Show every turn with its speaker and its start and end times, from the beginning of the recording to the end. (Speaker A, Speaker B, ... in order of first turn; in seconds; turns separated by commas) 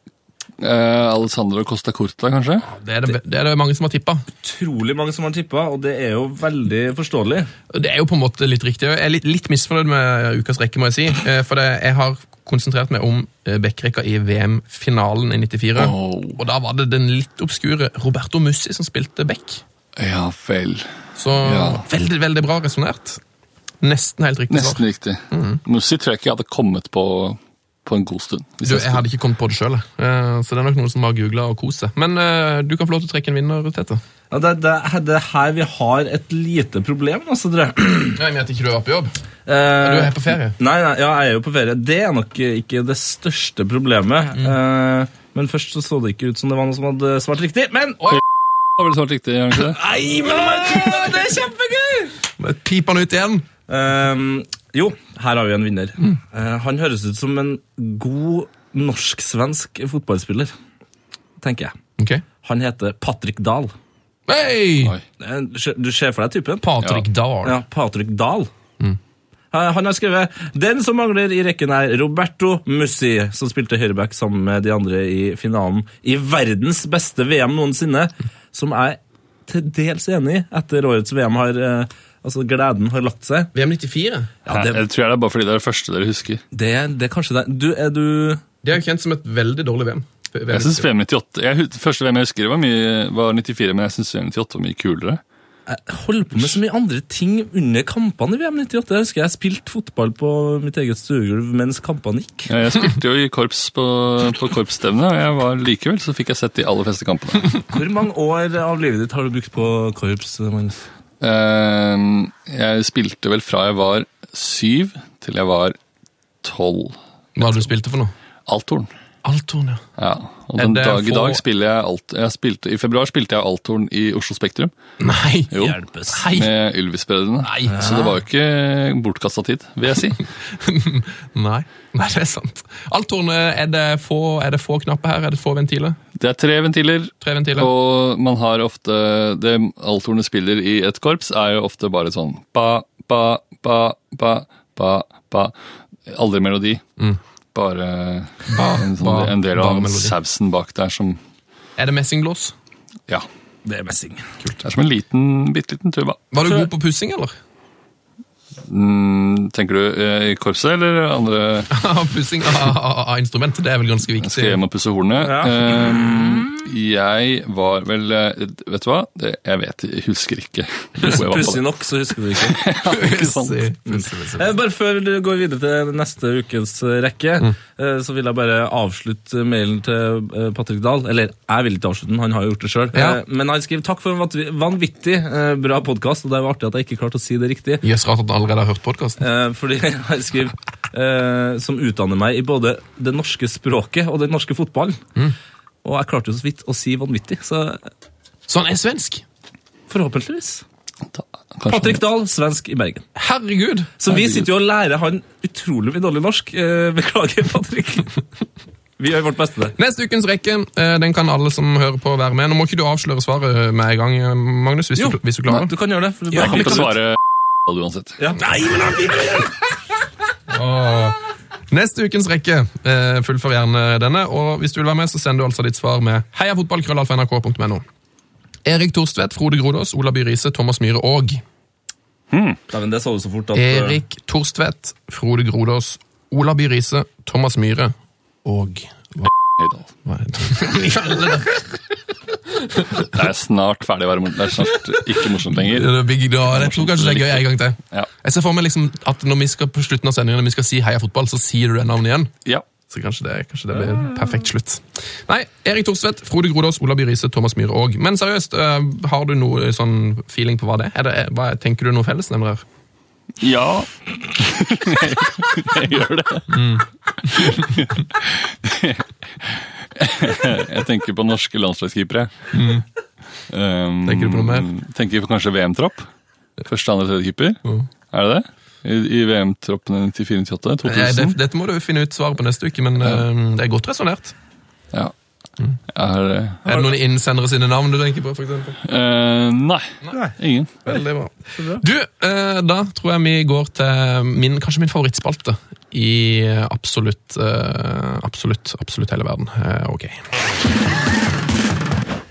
Speaker A: 0.6-2.7, Speaker B: 2.7-4.2, Speaker C: 4.4-7.5, Speaker B: 7.7-19.6, Speaker A: 15.8-16.4, Speaker A: 20.0-21.9, Speaker B: 21.2-23.2, Speaker B: 23.8-25.6, Speaker A: 24.5-29.0, Speaker B: 28.6-34.0, Speaker C: 34.3-38.2, Speaker B: 38.1-39.1, Speaker C: 39.5-48.1, Speaker B: 39.8-40.6, Speaker A: 48.8-49.8, Speaker C: 49.5-52.1, Speaker B: 52.4-53.5, Speaker C: 53.7-60.5, Speaker C: 61.4-61.8, Speaker B: 62.0-62.2, Speaker C: 62.4-63.7, Speaker B: 64.3-65.0, Speaker C: 65.2-66.7, Speaker B: 66.6-67.6, Speaker C: 67.4-68.5, Speaker C: 69.5-83.5, Speaker B: 83.5-84.3, Speaker C: 84.5-84.8, Speaker A: 84.5-86.4, Speaker C: 86.5-88.4, Speaker B: 88.6-90.9, Speaker A: 90.5-95.2, Speaker C: 95.7-102.5, Speaker A: 102.5-107.5, Speaker C: 107.7-110.8, Speaker A: 111.2-115.8, Speaker A: 116.4-117.7, Speaker B: 117.4-118.1, Speaker A: 118.5-118.9, Speaker B: 119.2-119.8, Speaker A: 120.0-124.7, Speaker B: 120.6-121.4, Speaker B: 125.0-125.6, Speaker A: 125.5-125.8, Speaker C: 125.6-126.2, Speaker B: 126.1-126.5, Speaker A: 126.3-130.2, Speaker B: 127.4-127.8, Speaker C: 127.8-128.1, Speaker B: 130.6-136.0, Speaker A: 136.2-145.5, Speaker B: 137.2-137.7, Speaker A: 146.1-146.8, Speaker A: 147.5-151.2, Speaker B: 148.5-150.2, Speaker B: 151.8-152.5, Speaker C: 153.7-154.3, Speaker A: 154.6-156.2, Speaker B: 156.3-157.3, Speaker A: 158.6-161.7, Speaker B: 161.7-164.6, Speaker A: 164.2-171.7, Speaker C: 165.2-166.4, Speaker C: 171.1-172.6, Speaker A: 172.4-173.7, Speaker B: 172.8-174.5, Speaker C: 173.9-187.8, Speaker B: 182.9-183.2, Speaker B: 187.8-189.2, Speaker C: 189.2-195.0, Speaker C: 195.8-197.8, Speaker B: 198.5-199.2, Speaker C: 199.9-200.6, Speaker A: 201.1-202.0, Speaker C: 201.7-203.1, Speaker B: 203.2-203.9, Speaker C: 204.0-208.1, Speaker A: 204.1-204.5, Speaker C: 209.0-209.8, Speaker B: 209.8-215.7, Speaker C: 215.0-217.0, Speaker A: 216.3-218.2, Speaker C: 218.2-219.5, Speaker B: 220.5-221.2, Speaker B: 221.7-227.8, Speaker B: 228.7-231.4, Speaker A: 232.3-232.6, Speaker C: 232.7-234.0, Speaker B: 233.6-237.9, Speaker B: 238.4-239.3, Speaker A: 239.5-239.9, Speaker B: 240.1-241.8, Speaker B: 242.7-243.1, Speaker A: 243.1-248.1, Speaker B: 245.5-252.3, Speaker B: 252.9-262.6, Speaker A: 263.4-266.7, Speaker B: 266.5-267.7, Speaker A: 267.3-272.7, Speaker B: 272.5-272.8, Speaker A: 273.5-276.1, Speaker B: 274.1-274.7, Speaker A: 276.6-277.6, Speaker A: 278.1-281.4, Speaker B: 280.8-284.3, Speaker A: 285.9-286.6, Speaker B: 286.6-288.8, Speaker A: 288.8-290.8, Speaker C: 290.1-291.0, Speaker B: 290.9-300.2, Speaker C: 291.6-291.8